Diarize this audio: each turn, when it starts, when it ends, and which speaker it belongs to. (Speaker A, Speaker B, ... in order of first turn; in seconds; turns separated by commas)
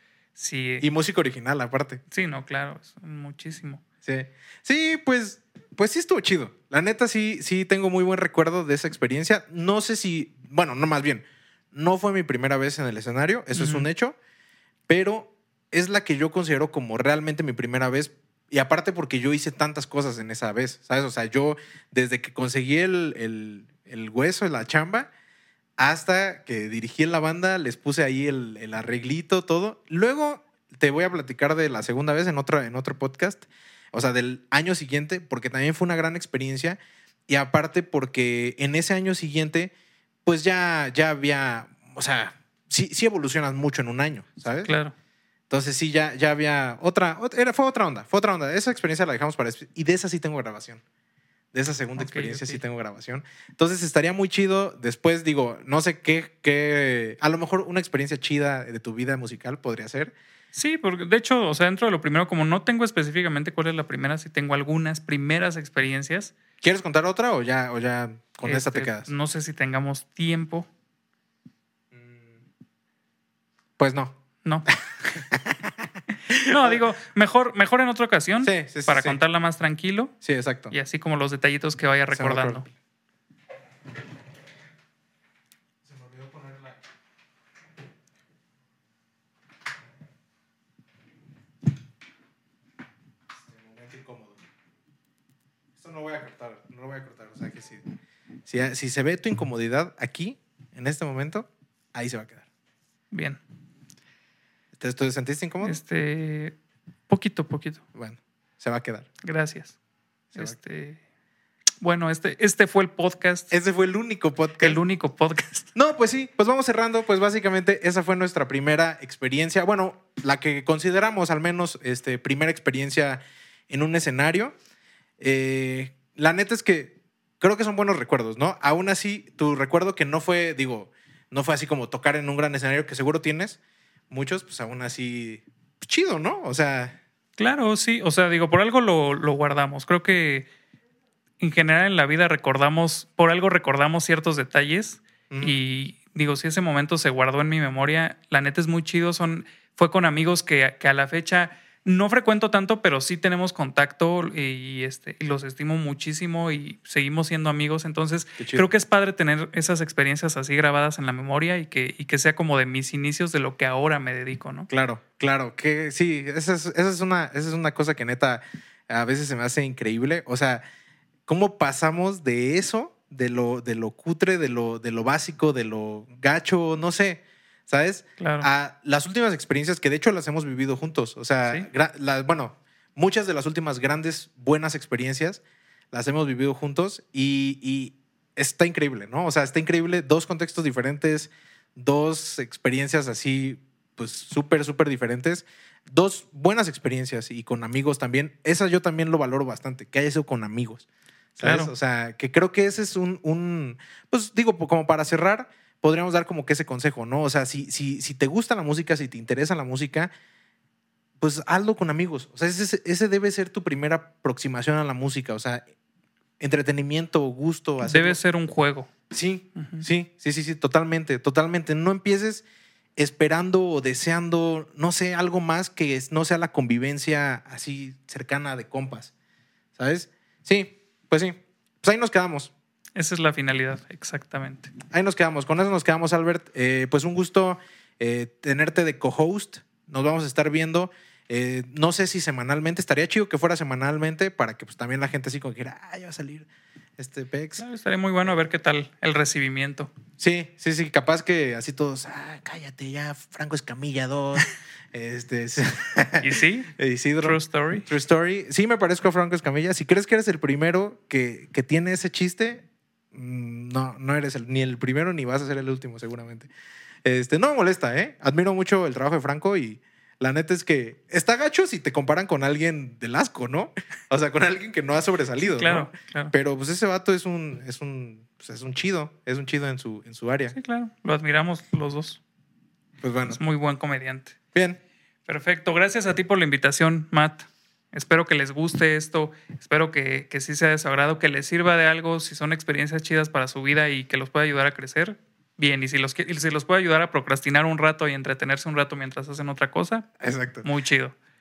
Speaker A: 0.4-0.8, Speaker B: 0.8-2.0, Speaker A: 2.1-3.8, Speaker B: 4.0-14.2, Speaker A: 13.5-13.9, Speaker B: 14.9-25.1, Speaker B: 25.8-39.7, Speaker B: 40.2-44.8, Speaker A: 44.6-44.9, Speaker B: 45.5-50.8, Speaker B: 51.5-60.1, Speaker A: 52.0-52.6, Speaker A: 60.5-66.3, Speaker B: 66.6-69.1, Speaker A: 68.5-70.7, Speaker B: 71.9-72.3, Speaker B: 73.8-74.2, Speaker B: 74.7-75.6, Speaker B: 76.3-76.8, Speaker A: 76.5-80.1, Speaker B: 78.4-79.2, Speaker B: 80.2-80.7, Speaker A: 80.7-82.7, Speaker B: 82.1-82.7, Speaker B: 85.9-86.8, Speaker B: 93.4-94.4, Speaker B: 95.8-97.8, Speaker B: 98.5-102.4, Speaker A: 103.1-103.4, Speaker B: 104.8-105.8, Speaker A: 105.6-106.5, Speaker A: 107.1-107.8, Speaker B: 107.9-109.1, Speaker A: 109.2-109.8, Speaker A: 110.3-111.0, Speaker A: 111.8-113.5, Speaker B: 113.5-114.8, Speaker A: 114.6-115.7, Speaker B: 115.8-124.5, Speaker B: 125.2-133.6, Speaker B: 134.1-137.0, Speaker A: 137.4-140.5, Speaker A: 141.4-164.7, Speaker B: 145.3-145.6, Speaker B: 158.4-158.7, Speaker B: 164.7-170.6, Speaker B: 171.3-185.4, Speaker A: 178.2-178.5, Speaker B: 185.9-200.8, Speaker B: 201.4-210.1, Speaker A: 201.4-201.7, Speaker B: 211.2-215.6, Speaker B: 216.4-218.2, Speaker A: 217.8-218.9, Speaker B: 219.1-222.4, Speaker A: 219.6-219.8, Speaker B: 223.0-229.1, Speaker B: 229.8-232.5, Speaker A: 232.9-234.7, Speaker B: 234.9-246.5, Speaker B: 247.0-247.6, Speaker A: 247.6-249.9, Speaker B: 250.2-266.5, Speaker A: 256.2-256.7, Speaker A: 257.2-257.9, Speaker B: 267.1-280.6, Speaker A: 275.4-276.3, Speaker A: 280.5-282.2, Speaker B: 283.0-283.4, Speaker A: 283.3-284.4, Speaker B: 284.5-284.8, Speaker A: 285.3-300.1, Speaker B: 300.2-300.7, Speaker A: 300.6-301.1